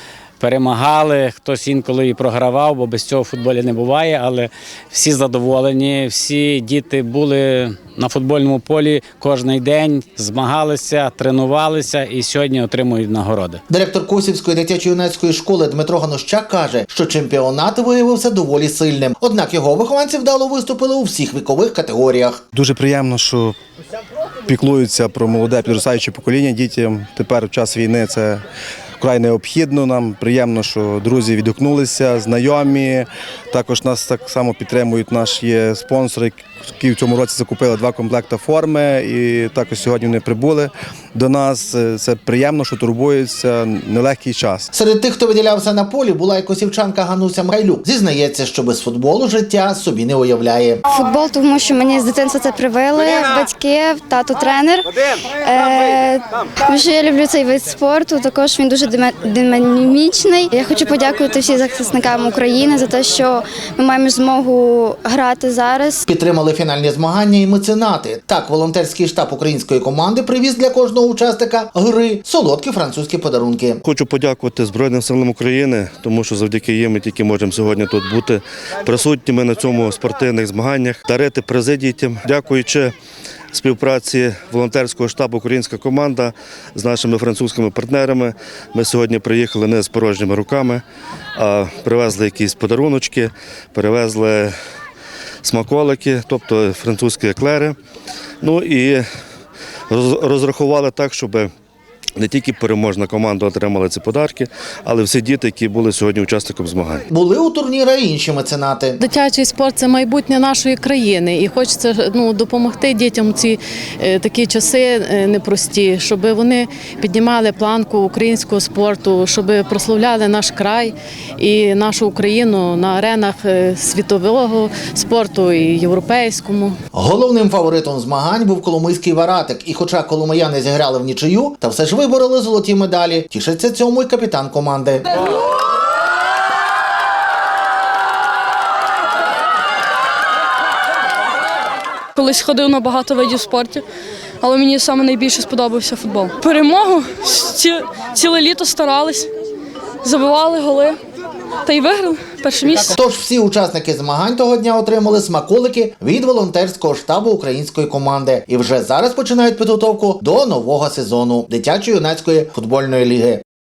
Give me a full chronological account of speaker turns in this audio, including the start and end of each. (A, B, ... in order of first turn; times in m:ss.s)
0:00.4-0:13.6 A
0:13.7-0:22.4 B
0:22.5-0:23.6 C
0:24.5-0:28.4 C
0:29.0-0:44.7 C
0:44.7-0:50.8 B
0:50.9-0:54.9 D
0:55.4-1:06.0 D
1:06.1-1:13.8 B
1:13.8-1:22.9 E
1:23.5-1:30.8 E
1:31.4-1:34.5 E
1:35.4-1:37.8 E
1:38.4-1:39.0 E
1:39.9-1:41.5 E
1:42.2-1:47.0 E
1:47.1-1:49.0 B
1:49.0-2:06.8 F
2:06.9-2:15.0 B
2:22.1-2:23.8 G
2:24.4-2:29.3 G
2:30.0-2:31.0 G
2:31.6-2:33.0 G
2:32.9-2:43.4 B